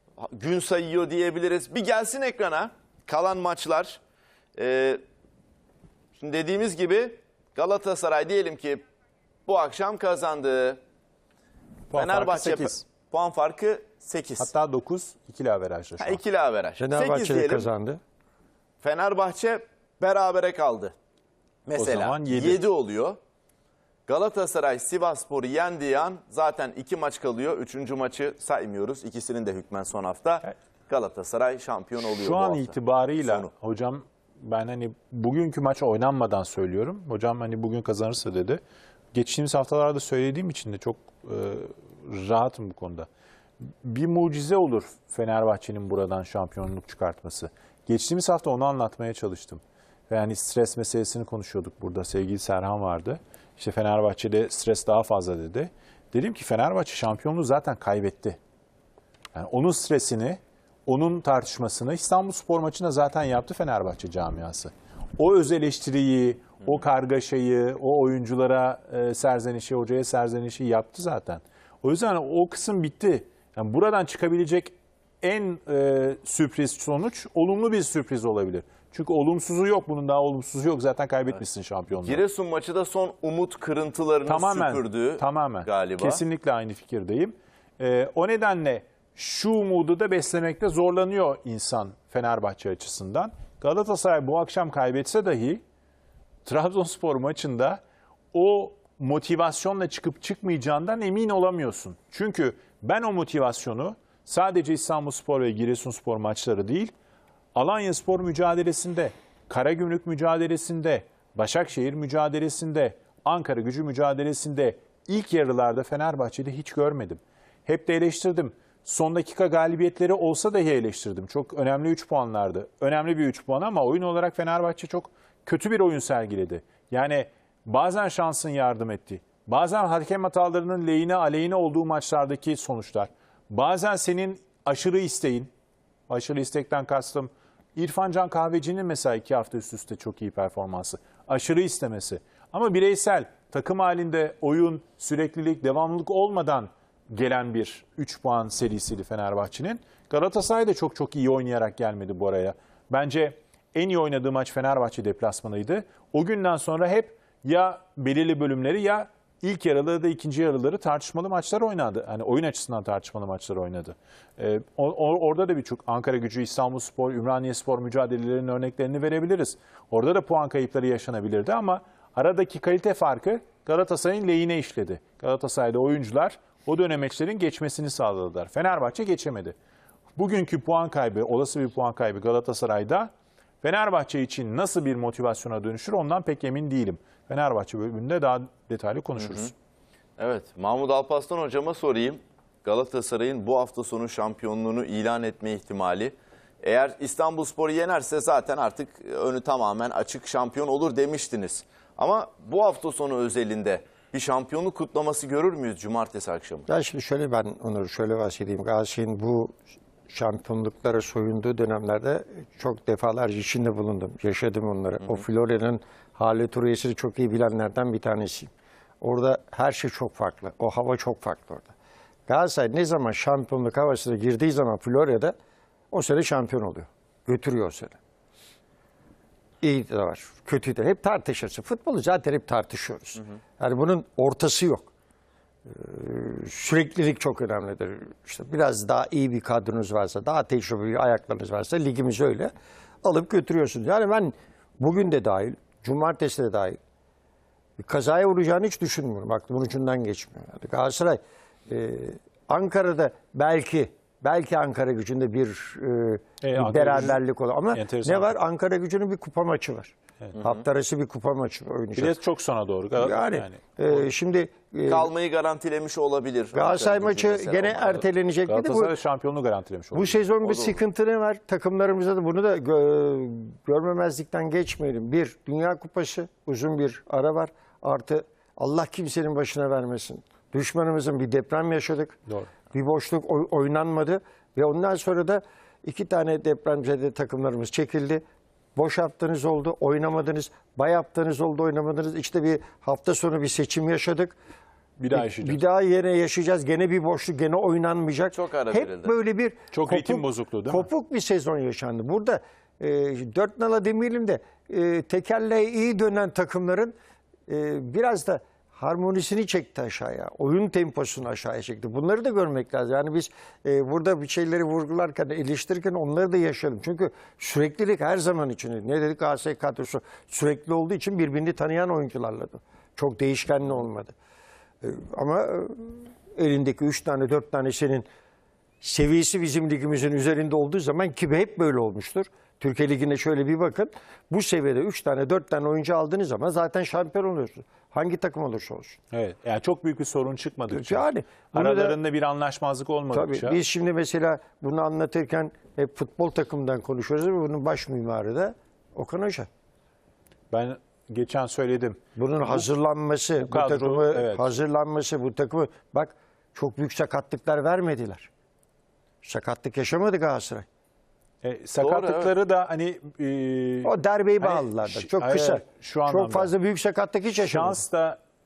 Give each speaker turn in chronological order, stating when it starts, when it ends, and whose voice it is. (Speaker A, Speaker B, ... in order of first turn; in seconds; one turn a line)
Speaker A: 0.2-4.0
Speaker A: 4.5-5.0
Speaker A: 6.2-8.8
Speaker A: 9.4-10.8
Speaker B: 11.9-12.8
Speaker A: 11.9-14.5
Speaker B: 14.4-16.2
Speaker A: 16.0-17.7
Speaker C: 16.8-18.0
Speaker A: 18.8-20.9
Speaker A: 21.6-23.2
Speaker B: 21.8-22.6
Speaker A: 24.1-33.5
Speaker B: 32.0-38.6
Speaker B: 39.1-43.1
Speaker B: 43.8-58.4
Speaker B: 59.3-82.2
Speaker A: 82.0-86.2
Speaker B: 84.2-95.6
Speaker B: 96.5-97.8
Speaker B: 98.3-106.9
Speaker B: 107.5-135.5
Speaker B: 136.1-179.5
Speaker B: 180.2-183.1
Speaker B: 183.6-189.5
Speaker A: 189.2-189.5
Speaker A: 190.2-206.7
Speaker C: 206.7-209.5
Speaker C: 210.1-221.7
Speaker C: 222.3-225.3
Speaker C: 225.9-228.0
Speaker C: 229.6-234.9
Speaker C: 235.6-242.5
Speaker C: 243.0-246.8
Speaker C: 247.8-262.2
Speaker B: 256.4-257.2
Speaker B: 257.7-258.4
Speaker A: 260.4-260.6
Speaker B: 261.9-264.1
Speaker C: 262.9-265.1
Speaker A: 264.8-268.0
Speaker C: 266.5-268.9
Speaker B: 268.4-270.3
Speaker C: 269.9-282.2
Speaker A: 270.4-270.8
Speaker C: 282.7-288.2
Speaker C: 288.8-294.4
Speaker B: 295.0-295.6
Speaker C: 295.1-306.9
Speaker A: 298.3-299.2
Speaker B: 299.7-300.9
Speaker C: 307.5-324.1
Speaker C: 324.8-328.1
Speaker C: 328.8-339.0
Speaker B: 339.1-343.6
Speaker C: 340.7-342.0
Speaker C: 343.1-349.5
Speaker B: 350.5-352.6
Speaker C: 352.1-358.3
Speaker B: 353.4-354.5
Speaker C: 359.2-360.6
Speaker B: 361.4-366.5
Speaker A: 361.8-362.3
Speaker C: 363.8-367.8
Speaker B: 367.4-368.2